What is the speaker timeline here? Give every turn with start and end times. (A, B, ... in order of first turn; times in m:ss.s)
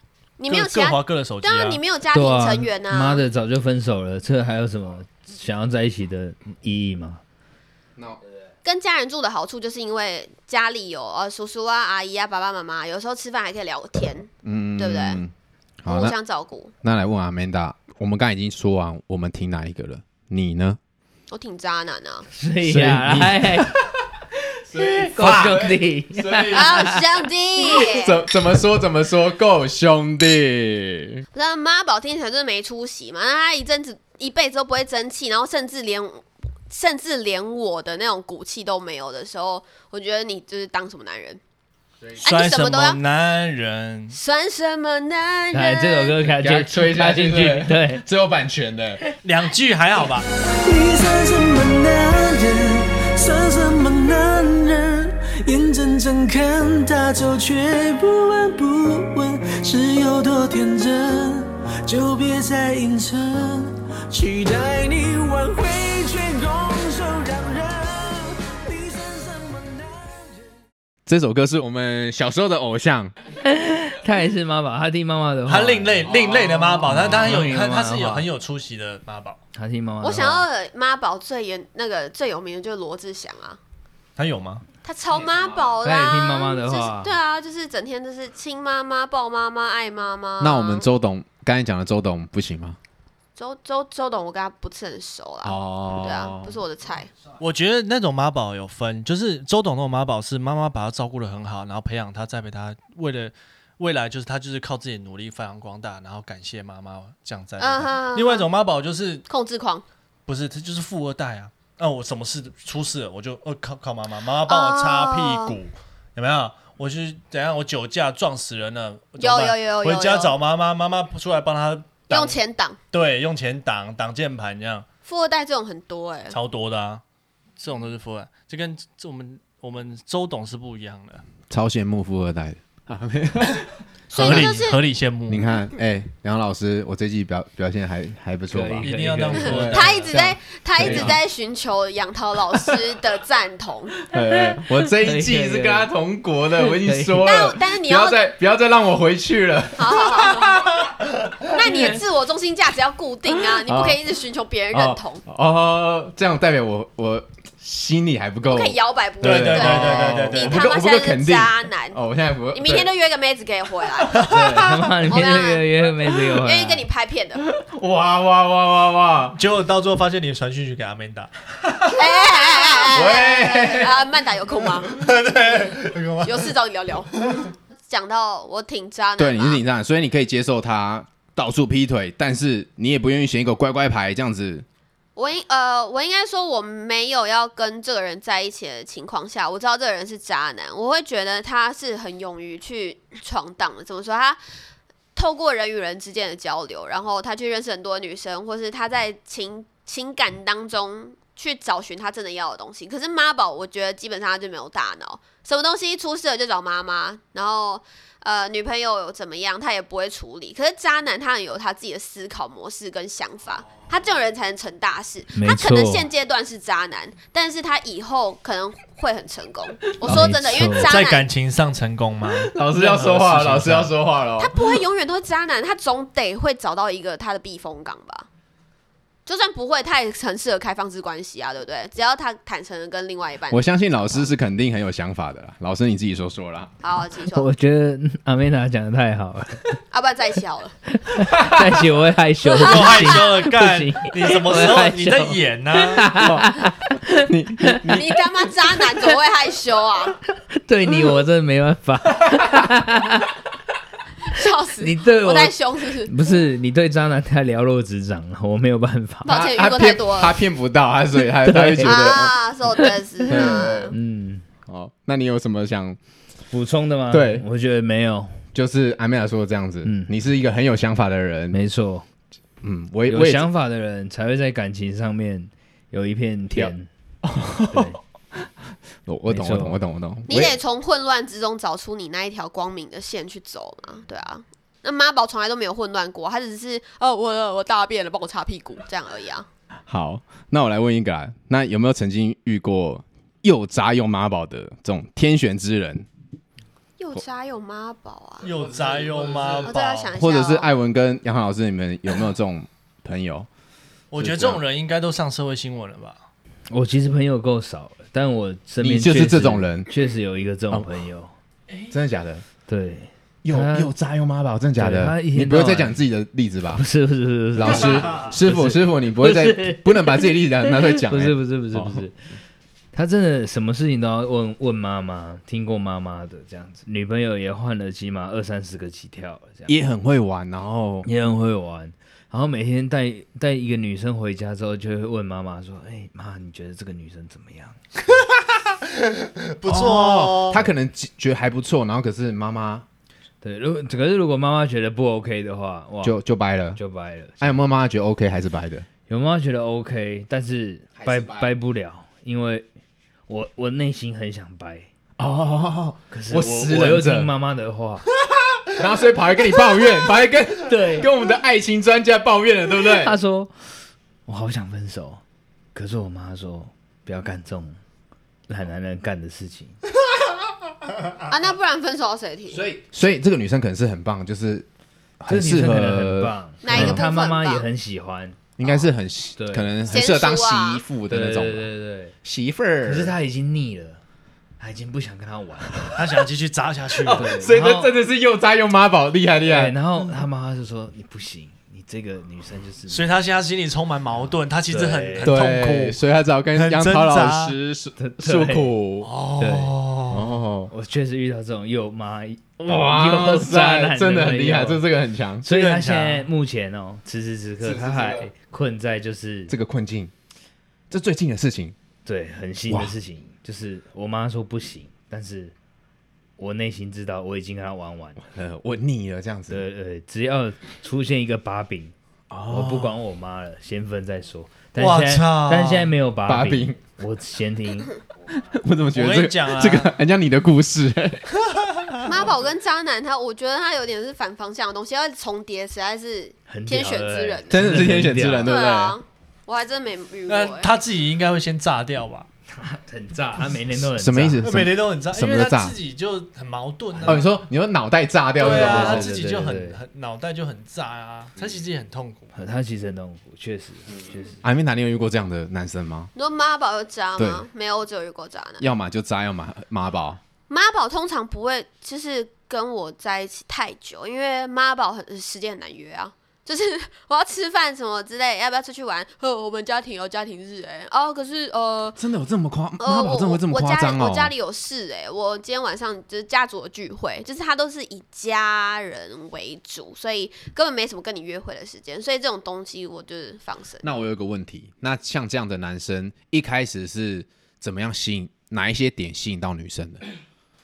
0:00.4-0:03.2 A
0:00.5-0:01.8 B
0:02.1-0:07.2 C
0:08.6-0:15.2 A
0:14.4-0:16.2 D
0:15.9-0:16.7 A
0:16.8-0:20.8 D
0:21.3-0:22.3 A
0:22.3-0:23.7 C
0:22.6-0:24.0 D
0:24.7-0:27.0 D
0:24.7-0:27.0 C
0:26.5-0:28.2 A
0:27.6-0:31.2 D
0:31.3-0:41.4 A
0:42.2-0:43.0 A
0:42.2-0:44.2 B
0:44.1-0:46.2 A
0:45.5-0:48.0 C
0:46.4-0:49.0 D
0:49.2-0:50.3 B
0:50.6-1:10.5 E
1:11.0-1:13.1 D
1:13.4-1:16.1 C
1:15.5-1:19.4 B
1:16.1-1:17.3 D
1:16.8-1:18.3 C
1:19.5-1:20.4 C
1:20.0-1:23.6 A
1:24.2-1:24.6 B
1:24.8-1:30.9 A
1:25.1-1:25.7 D
1:25.8-1:27.1 C
1:30.4-1:32.8 D
1:33.4-1:37.1 A
1:35.4-1:36.6 D
1:37.4-1:49.2 B
1:47.6-1:48.5 A
1:49.3-1:49.8 A
1:50.3-2:02.4 B
1:54.5-1:55.5 A
1:59.2-2:00.3 A
2:02.1-2:02.8 A
2:02.9-2:04.8 B
2:05.0-2:06.4 A
2:06.3-2:07.0 B
2:07.6-2:11.2 B
2:11.5-2:14.6 D
2:14.1-2:14.8 A
2:14.1-2:15.5 B
2:15.3-2:21.2 D
2:18.5-2:20.2 C
2:18.8-2:20.2 B
2:19.4-2:24.0 A
2:24.1-2:30.8 D
2:24.3-2:25.9 C
2:26.6-2:27.3 C
2:27.2-2:28.2 A
2:29.8-2:30.6 A
2:31.4-2:35.2 A
2:33.6-2:34.0 D
2:34.7-2:42.9 D
2:38.4-2:42.0 A
2:39.2-2:40.7 B
2:42.5-2:44.4 A
2:44.1-2:44.5 D
2:44.3-2:46.8 C
2:45.0-2:47.4 A
2:47.5-2:49.4 D
2:49.3-2:51.3 B
2:51.8-2:54.0 D
2:51.9-2:55.0 A
2:54.9-2:56.5 B
2:56.2-2:59.6 A
2:59.2-3:04.6 D
3:05.2-3:14.4 A
3:15.1-3:41.2 A
3:35.3-3:36.0 C
3:40.0-3:40.9 C
3:40.0-3:40.3 D
3:40.7-3:43.9 B
3:42.2-3:44.8 D
3:44.4-3:48.3 A
3:49.2-3:54.3 A
3:53.5-3:56.7 D
3:56.8-3:57.5 A
3:57.3-3:59.8 C
3:59.9-4:00.8 A
4:00.9-4:07.8 C
4:01.3-4:01.6 D
4:02.5-4:03.3 A
4:02.6-4:06.1 B
4:06.1-4:08.2 D
4:07.9-4:10.2 A
4:10.5-4:13.3 C
4:12.3-4:12.7 D
4:14.3-4:16.1 A
4:14.8-4:19.3 C
4:19.2-4:20.3 A
4:19.2-4:22.4 D
4:21.4-4:22.2 C
4:21.8-4:23.9 A
4:22.8-4:24.4 C
4:23.2-4:24.0 D
4:24.6-4:26.0 D
4:26.5-4:28.4 C
4:27.1-4:27.4 D
4:28.5-4:31.6 D
4:29.8-4:30.1 C
4:31.5-4:32.0 C
4:32.6-4:33.5 D
4:33.1-4:36.9 C
4:37.2-4:38.5 D
4:37.7-4:38.0 C
4:39.0-4:40.6 D
4:39.3-4:39.8 C
4:40.3-4:49.5 A
4:49.9-4:56.1 D
4:57.0-4:58.5 A
4:58.4-5:00.1 B
4:58.5-5:03.5 D
4:59.6-5:00.7 A
5:04.1-5:06.2 B
5:04.2-5:04.6 D
5:06.7-5:11.3 C
5:08.8-5:09.9 D
5:11.9-5:12.4 D
5:12.7-5:13.9 C
5:13.4-5:16.8 D
5:14.8-5:16.0 C
5:16.7-5:22.2 C
5:17.5-5:22.0 D
5:22.9-5:29.7 C
5:29.6-5:31.1 D
5:31.0-5:37.8 C
5:38.8-5:40.7 B
5:39.6-5:42.8 D
5:43.4-5:46.2 C
5:46.0-5:46.8 D
5:46.8-5:47.5 C
5:47.4-5:48.8 D
5:49.1-5:52.7 C
5:51.0-5:51.5 D
5:53.3-5:54.9 C
5:55.2-5:57.3 D
5:56.1-5:58.0 C
5:58.7-6:03.1 D
6:00.6-6:01.1 C
6:02.9-6:03.5 C
6:04.2-6:05.2 C
6:05.7-6:07.8 C
6:08.5-6:09.8 C
6:11.3-6:12.6 A
6:12.5-6:14.6 D
6:15.2-6:17.0 D
6:15.2-6:18.4 C
6:16.6-6:17.7 A
6:18.6-6:21.7 D
6:19.4-6:19.7 C
6:19.8-6:20.8 A
6:21.1-6:22.1 C
6:22.2-6:23.2 D
6:22.8-6:24.0 C
6:24.6-6:25.9 C
6:25.9-6:27.9 B
6:27.0-6:29.8 D
6:27.1-6:27.8 C
6:29.4-6:33.1 C
6:32.9-6:36.0 B
6:34.7-6:35.4 C
6:35.2-6:39.1 D
6:36.5-6:37.6 B
6:38.0-6:38.7 C
6:39.0-6:40.3 B
6:39.4-6:39.8 C
6:40.1-6:40.7 D
6:40.7-6:44.8 C
6:42.6-6:45.4 D
6:45.4-6:49.5 C
6:45.5-6:46.3 B
6:47.6-6:48.3 D
6:49.5-6:50.1 D
6:50.9-6:51.7 D
6:52.0-6:55.5 C
6:52.7-6:52.9 D
6:56.4-6:58.2 C
6:58.2-6:59.6 D
6:59.5-7:01.9 C
7:02.3-7:03.0 D
7:02.5-7:07.9 C
7:04.8-7:05.9 B
7:06.3-7:06.8 D
7:08.3-7:11.3 D
7:08.9-7:09.9 B
7:11.4-7:12.0 B
7:12.0-7:17.6 A
7:16.5-7:18.5 C
7:17.5-7:19.0 D
7:18.4-7:20.7 A
7:20.3-7:22.3 B
7:22.5-7:24.4 C
7:23.9-7:25.8 D
7:24.4-7:27.2 B
7:27.0-7:29.1 D
7:28.4-7:32.3 B
7:28.4-7:29.8 C
7:32.3-7:34.4 C
7:34.4-7:36.1 D
7:36.1-7:38.7 A
7:37.2-7:37.4 D
7:38.6-7:40.2 D
7:40.5-7:52.0 A
7:52.0-7:54.3 D
7:52.8-8:03.8 A
8:03.8-8:10.0 D